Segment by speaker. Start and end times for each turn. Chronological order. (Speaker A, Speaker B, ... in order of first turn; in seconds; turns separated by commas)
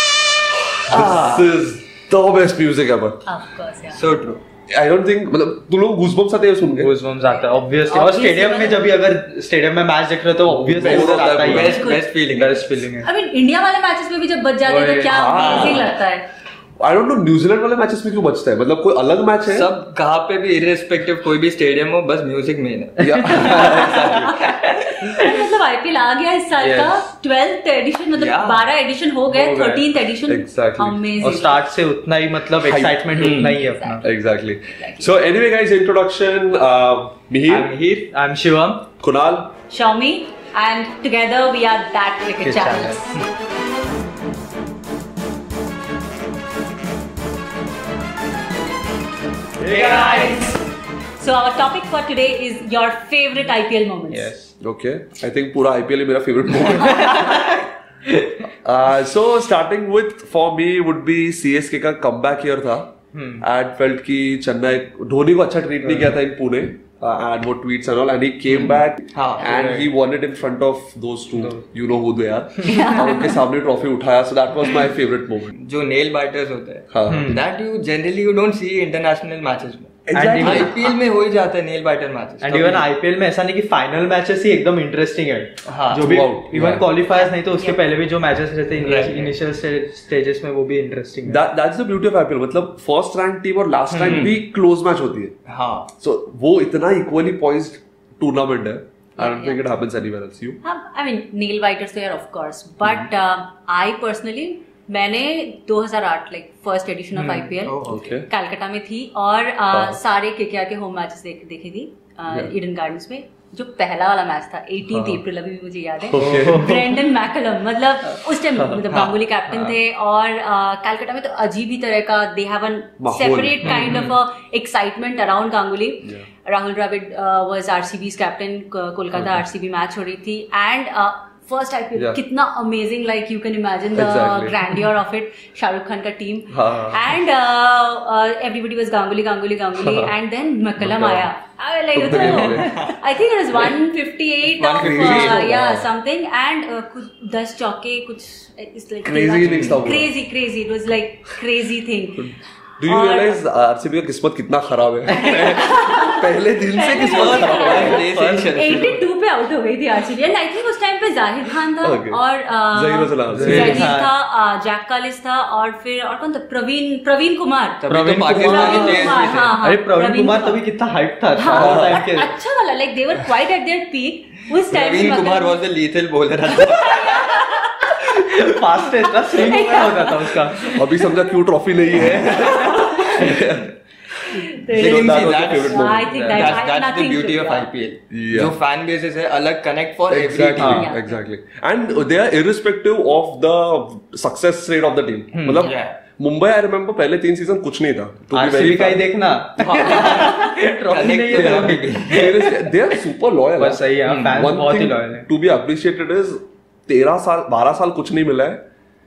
Speaker A: 0.6-3.2, Speaker B: 1.0-1.4, Speaker C: 3.3-4.0, Speaker B: 3.9-4.4, Speaker A: 4.7-6.9, Speaker D: 6.6-13.1, Speaker C: 7.2-9.0, Speaker A: 10.5-11.8, Speaker B: 10.7-12.7, Speaker C: 11.7-12.1, Speaker C: 13.0-16.3, Speaker D: 14.6-15.1, Speaker A: 15.1-15.9, Speaker B: 15.3-15.9, Speaker A: 16.8-19.7, Speaker B: 19.5-24.8, Speaker A: 23.0-24.3, Speaker D: 23.1-24.2, Speaker C: 23.6-24.2, Speaker C: 24.9-31.6, Speaker B: 28.1-28.7, Speaker D: 29.3-29.8, Speaker A: 30.3-31.1, Speaker D: 31.2-34.0, Speaker A: 32.6-37.7, Speaker B: 33.1-33.5, Speaker C: 33.3-35.1, Speaker B: 37.5-38.1, Speaker D: 38.1-38.9, Speaker A: 39.0-39.5, Speaker C: 39.7-43.0, Speaker D: 42.4-43.2, Speaker C: 49.7-50.6, Speaker D: 49.7-50.5, Speaker C: 51.2-54.3, Speaker D: 54.1-54.5, Speaker A: 54.6-57.6, Speaker A: 58.6-75.5, Speaker D: 63.1-63.4, Speaker D: 65.8-66.2, Speaker B: 68.5-69.5, Speaker D: 69.4-69.9, Speaker D: 71.3-71.6, Speaker C: 72.6-73.4, Speaker B: 75.6-82.9, Speaker A: 76.9-77.3, Speaker D: 77.1-77.4, Speaker A: 80.1-81.0, Speaker D: 80.1-80.7, Speaker D: 82.4-91.4, Speaker B: 85.6-86.1, Speaker A: 86.0-86.9, Speaker B: 88.8-89.3, Speaker A: 91.2-95.3, Speaker D: 93.9-94.3, Speaker B: 94.0-94.4, Speaker B: 95.5-95.9, Speaker A: 96.0-100.6, Speaker C: 99.2-99.6, Speaker C: 100.6-152.3, Speaker D: 107.1-107.5, Speaker B: 107.6-108.1, Speaker A: 107.8-108.3, Speaker A: 109.7-110.0, Speaker A: 114.9-115.2, Speaker A: 116.0-116.8, Speaker D: 116.2-117.0, Speaker B: 118.9-119.2, Speaker A: 123.0-123.9, Speaker B: 123.6-124.2, Speaker A: 129.1-129.4, Speaker A: 133.9-134.6, Speaker A: 136.5-137.1, Speaker A: 139.8-140.1, Speaker A: 140.8-141.3, Speaker A: 141.9-142.7, Speaker B: 142.2-142.9, Speaker B: 144.6-145.5, Speaker A: 144.8-145.9, Speaker A: 149.0-150.1, Speaker B: 149.4-149.9, Speaker A: 152.2-158.5, Speaker C: 152.8-153.4, Speaker C: 155.1-170.6, Speaker B: 156.9-159.1, Speaker A: 161.8-163.9, Speaker D: 163.3-164.1, Speaker B: 163.4-163.9, Speaker B: 167.8-169.6, Speaker D: 167.9-172.3, Speaker C: 171.3-175.6, Speaker A: 171.5-172.0, Speaker B: 174.6-177.3, Speaker C: 176.6-177.9, Speaker D: 178.0-180.7, Speaker C: 179.1-181.3, Speaker A: 180.6-183.7, Speaker C: 181.9-183.4, Speaker C: 184.2-187.7, Speaker A: 184.7-186.1, Speaker B: 184.7-190.8, Speaker D: 186.1-186.4, Speaker A: 188.1-188.6, Speaker A: 190.1-200.3, Speaker D: 190.6-190.9, Speaker C: 190.7-191.2, Speaker D: 195.3-195.7, Speaker B: 195.6-196.0, Speaker D: 198.3-202.9, Speaker B: 199.6-202.2, Speaker A: 201.3-208.6, Speaker D: 203.6-205.3, Speaker B: 204.1-204.4